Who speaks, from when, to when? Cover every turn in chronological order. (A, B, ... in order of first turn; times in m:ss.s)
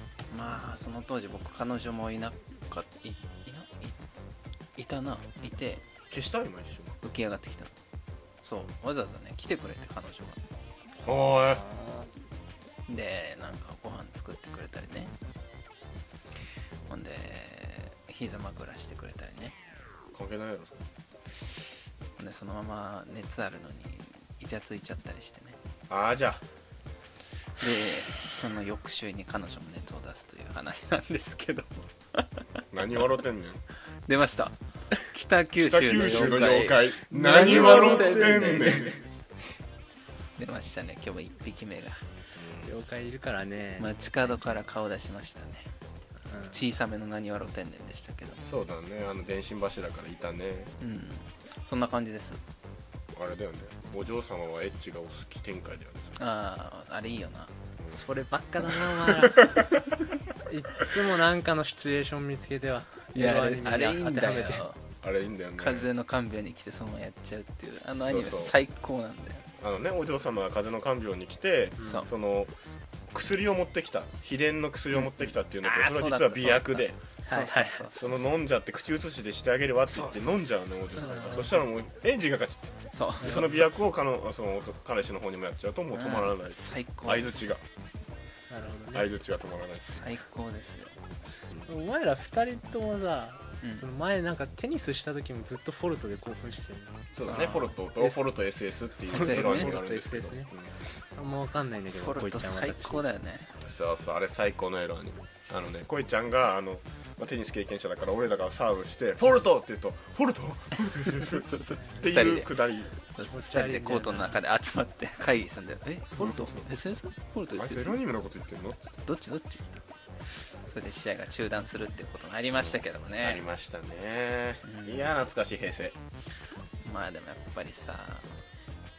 0:00.3-0:04.0 A
0:04.8-0:05.8 A
0:06.1-0:07.0 B
0:07.0-0:07.7 A
0:08.4-0:10.4 A
0:11.0-0:11.6 B
0:11.4-0:12.1 C
0:12.9-0:15.1 A
0:16.9-0:19.5 A
0:20.1-0:20.9 B
0:22.2-0:25.6 A
0:25.9-0:26.4 B
0:27.6-0:32.6 A
0:32.7-0:33.6 B
0:34.1-0:34.5 A
0:35.1-0:38.9 A
0:35.6-0:39.0 B
0:37.1-0:38.9 C
0:40.4-0:42.0 A
0:42.3-0:42.7 B
0:42.6-0:43.9 C
0:43.8-0:45.7 A
0:46.3-0:46.6 C
0:46.5-0:48.4 A
0:48.4-0:50.7 B
0:50.8-0:52.4 A
0:53.1-0:56.1 B
0:56.2-0:57.5 A
0:57.9-0:59.6 C
0:59.0-0:59.8 B
1:00.5-1:04.6 C
1:03.1-1:04.8 A
1:05.0-1:05.9 B
1:05.6-1:09.4 A
1:08.0-1:08.6 B
1:09.6-1:12.5 B
1:11.8-1:12.1 A
1:13.1-1:17.0 B
1:14.9-1:18.4 A
1:17.2-1:17.8 C
1:18.0-1:27.6 B
1:19.9-1:21.6 A
1:21.0-1:21.6 C
1:22.9-1:23.7 A
1:23.2-1:23.6 C
1:25.9-1:27.5 A
1:28.5-1:29.1 C
1:28.9-1:30.0 B
1:29.9-1:30.9 A
1:31.6-1:37.0 C
1:37.1-1:40.7 B
1:37.2-1:37.7 A
1:39.1-1:39.7 A
1:39.1-1:40.5 C
1:41.2-1:43.0 C
1:42.0-1:43.5 A
1:43.6-1:52.9 B
1:51.1-1:58.0 A
1:53.2-1:54.4 C
1:56.2-1:56.7 B
1:57.5-1:59.0 B
1:59.0-1:59.8 A
2:00.6-2:03.4 A
2:02.6-2:06.0 B
2:04.6-2:05.1 A
2:06.8-2:08.4 A